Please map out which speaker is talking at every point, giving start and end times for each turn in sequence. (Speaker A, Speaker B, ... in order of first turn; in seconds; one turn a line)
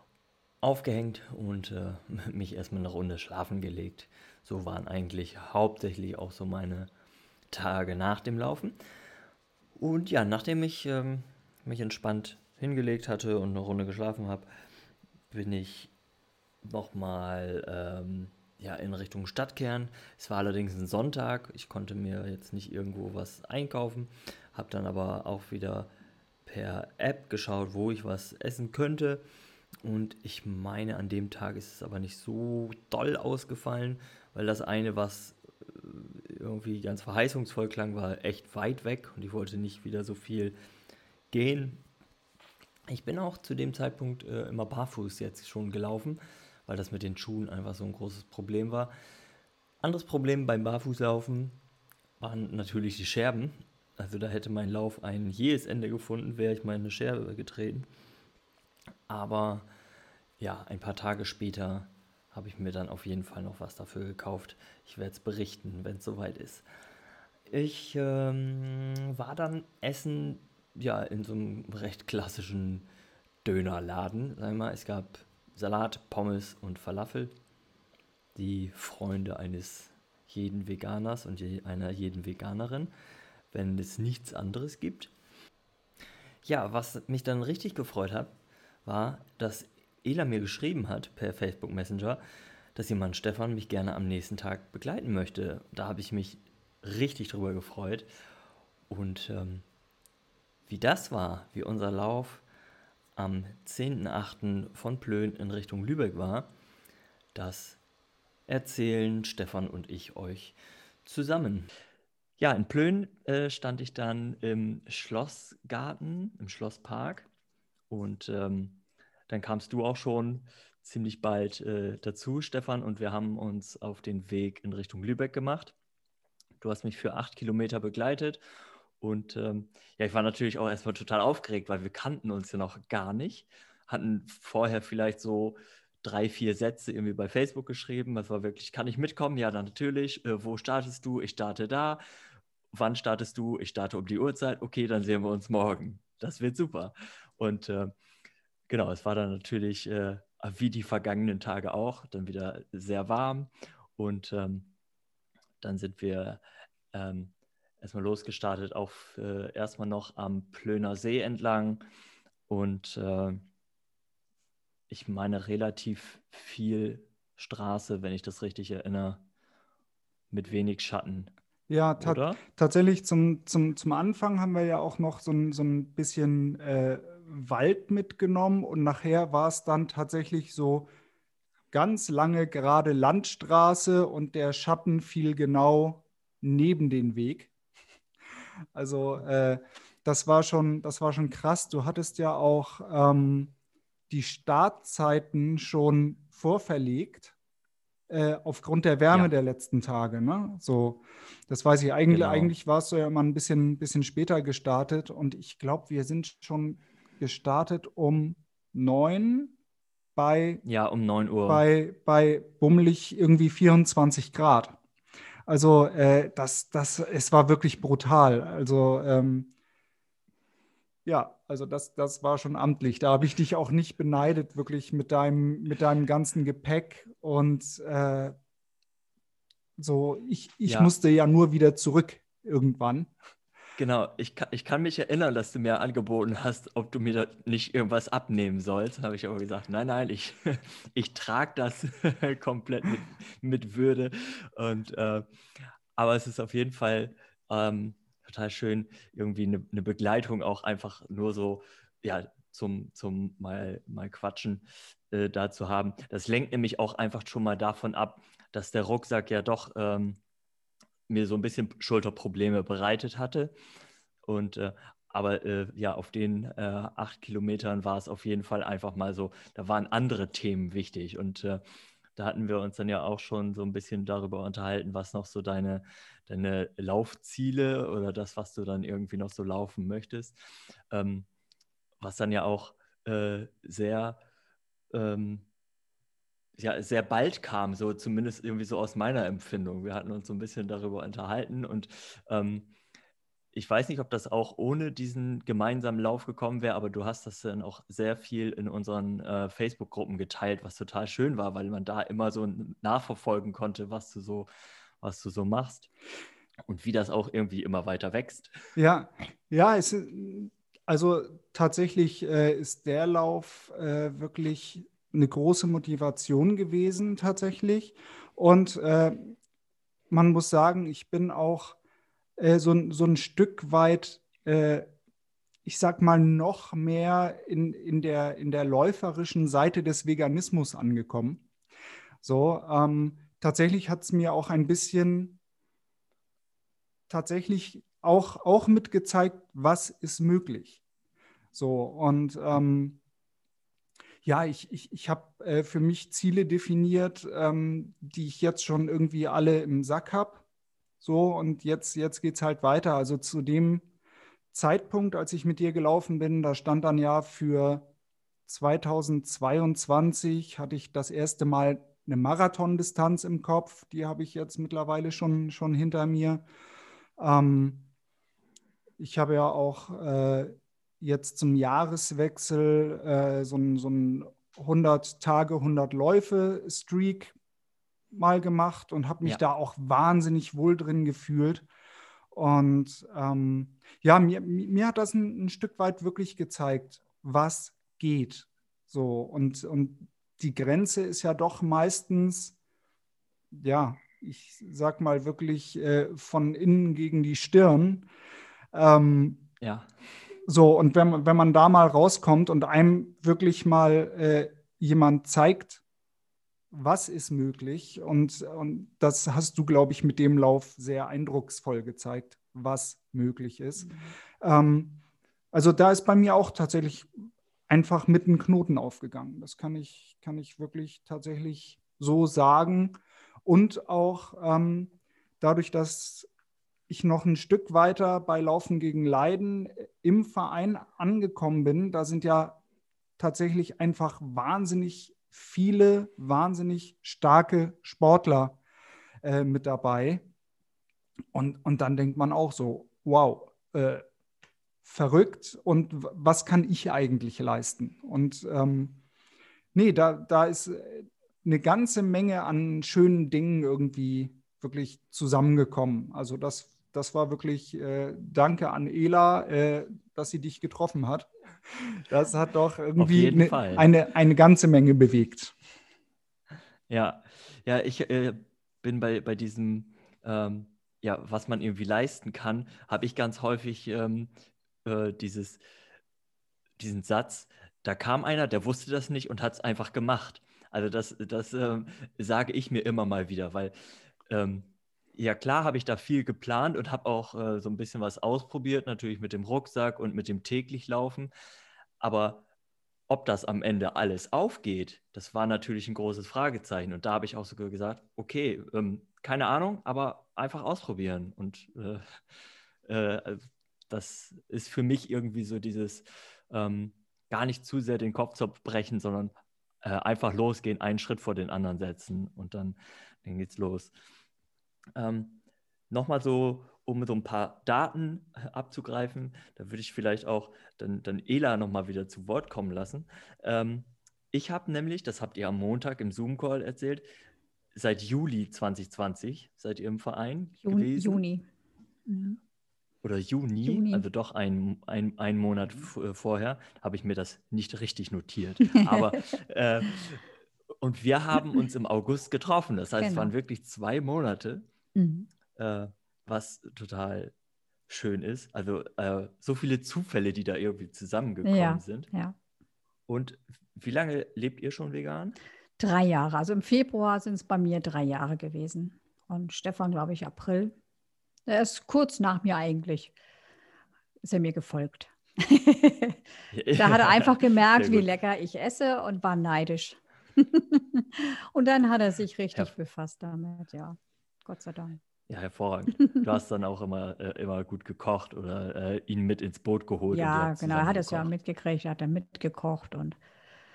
Speaker A: 0.6-6.9
Speaker A: 7.5-8.8
Speaker A: 9.8-14.5
Speaker A: 15.3-15.9
Speaker A: 16.6-25.9
Speaker A: 26.5-29.2
Speaker A: 29.8-40.5
Speaker A: 41.3-41.8
Speaker A: 42.9-48.9
Speaker A: 49.8-51.6
Speaker A: 52.2-57.9
Speaker A: 59.1-59.7
Speaker A: 60.4-66.6
Speaker A: 67.5-72.9
Speaker A: 73.5-77.3
Speaker A: 78.3-82.9
Speaker A: 83.5-85.1
Speaker A: 86.5-88.3
Speaker A: 88.8-92.2
Speaker A: 92.8-98.1
Speaker A: 98.9-99.6
Speaker A: 100.7-102.4
Speaker A: 103.2-106.5
Speaker A: 107.3-107.8
Speaker A: 108.5-111.7
Speaker A: 112.4-117.3
Speaker A: 117.9-125.8
Speaker A: 126.6-128.4
Speaker A: 129.0-142.0
Speaker A: 142.7-147.9
Speaker A: 148.7-154.7
Speaker A: 155.6-156.4
Speaker A: 156.9-161.8
Speaker A: 162.5-163.4
Speaker A: 164.9-169.2
Speaker A: 170.3-171.3
Speaker B: 171.7-180.9
Speaker A: 172.0-172.4
Speaker B: 181.7-187.5
Speaker B: 188.7-193.5
Speaker B: 194.1-197.3
Speaker B: 198.1-209.5
Speaker A: 202.1-202.5
Speaker B: 210.2-210.6
Speaker A: 210.7-211.6
Speaker B: 211.5-214.8
Speaker B: 215.5-219.5
Speaker B: 221.0-228.3
Speaker B: 229.8-233.1
Speaker A: 230.7-230.9
Speaker A: 233.8-245.2
Speaker A: 246.0-260.2
Speaker A: 261.1-263.5
Speaker A: 264.3-271.6
Speaker A: 272.2-280.4
Speaker A: 280.9-281.3
Speaker A: 282.0-284.2
Speaker A: 284.9-285.5
Speaker A: 286.6-292.7
Speaker A: 293.5-304.5
Speaker A: 305.0-305.9
Speaker A: 306.7-308.5
Speaker B: 308.8-319.4
Speaker B: 320.1-321.8
Speaker B: 322.4-324.9
Speaker B: 325.6-331.4
Speaker B: 332.2-335.4
Speaker B: 337.1-340.8
Speaker B: 341.5-343.0
Speaker B: 344.2-350.4
Speaker B: 351.0-353.9
Speaker B: 354.5-357.9
Speaker B: 358.5-366.4
Speaker B: 367.2-367.9
Speaker B: 369.0-377.4
Speaker B: 378.1-381.7
Speaker B: 382.3-392.6
Speaker B: 393.5-398.1
Speaker B: 398.7-399.4
Speaker A: 399.6-399.9
Speaker B: 400.5-405.8
Speaker B: 406.7-415.0
Speaker C: 413.9-414.1
Speaker B: 415.5-417.1
Speaker B: 417.7-426.3
Speaker B: 426.9-432.6
Speaker B: 433.2-438.6
Speaker B: 439.2-440.2
Speaker B: 441.3-444.0
Speaker B: 444.8-449.0
Speaker B: 449.7-465.5
Speaker A: 463.0-463.9
Speaker A: 466.9-474.3
Speaker A: 474.9-475.6
Speaker A: 476.8-483.7
Speaker A: 484.3-491.3
Speaker A: 492.0-492.4
Speaker A: 493.1-502.1
Speaker A: 502.9-513.9
Speaker A: 515.0-527.0
Speaker A: 527.8-531.2
Speaker C: 530.6-531.4
Speaker C: 532.1-532.4
Speaker A: 533.0-540.2
Speaker C: 533.7-534.0
Speaker C: 538.7-539.0
Speaker A: 540.8-544.7
Speaker C: 543.0-543.3
Speaker C: 545.0-545.3
Speaker A: 545.5-547.3
Speaker A: 547.9-552.1
Speaker C: 551.4-552.4
Speaker A: 553.1-555.4
Speaker C: 555.8-560.8
Speaker C: 561.5-563.1
Speaker C: 564.2-566.2
Speaker A: 566.5-568.1
Speaker C: 566.8-575.0
Speaker A: 575.3-581.3
Speaker C: 580.1-583.2